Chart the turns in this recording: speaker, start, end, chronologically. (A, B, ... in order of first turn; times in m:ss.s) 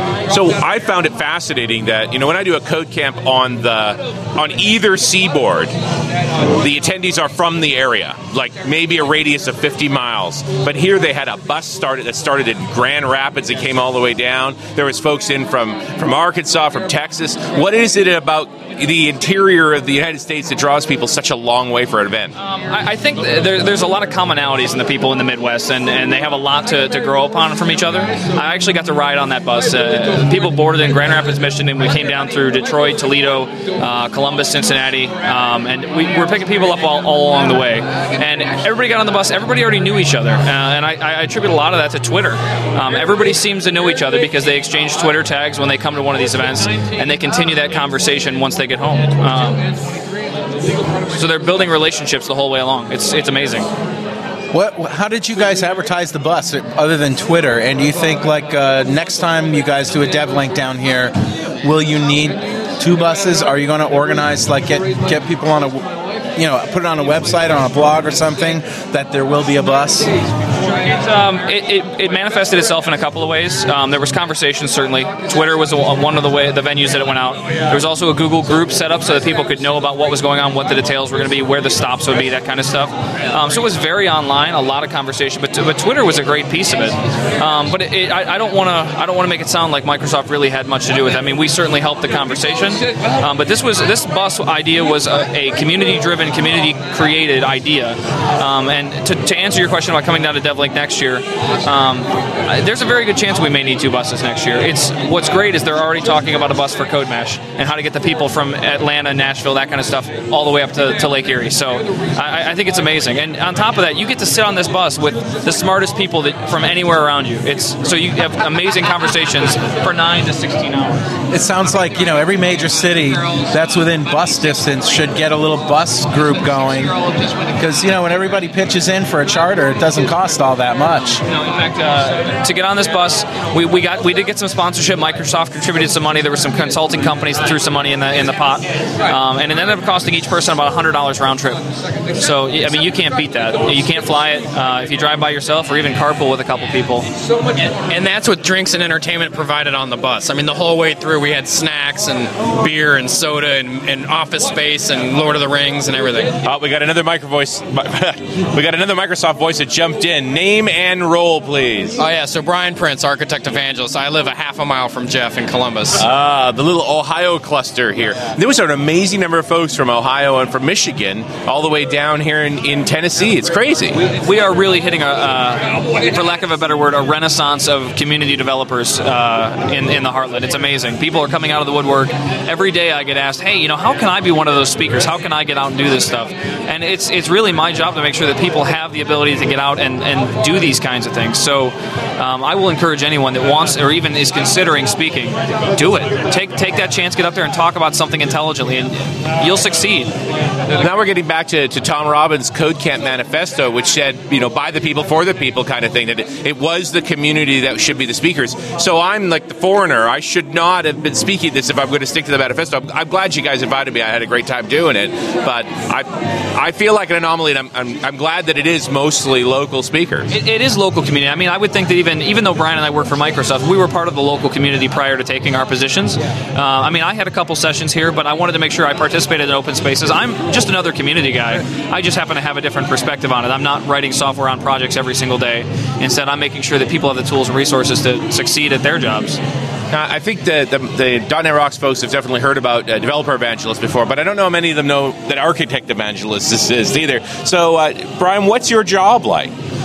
0:00.3-0:05.7 A
0:06.6-0:22.3 A
0:22.4-0:49.7 B
0:51.1-0:53.7 B
0:54.5-1:10.1 C
1:10.9-2:01.0 B
2:01.3-2:06.9 C
2:07.6-2:11.2 C
2:11.3-2:27.1 B
2:27.8-2:36.3 D
2:36.4-2:42.0 A
2:42.0-2:46.0 D
2:46.0-2:54.0 A
2:54.0-3:20.1 B
3:20.8-3:40.3 A
3:40.3-3:59.4 B
3:59.9-4:09.5 A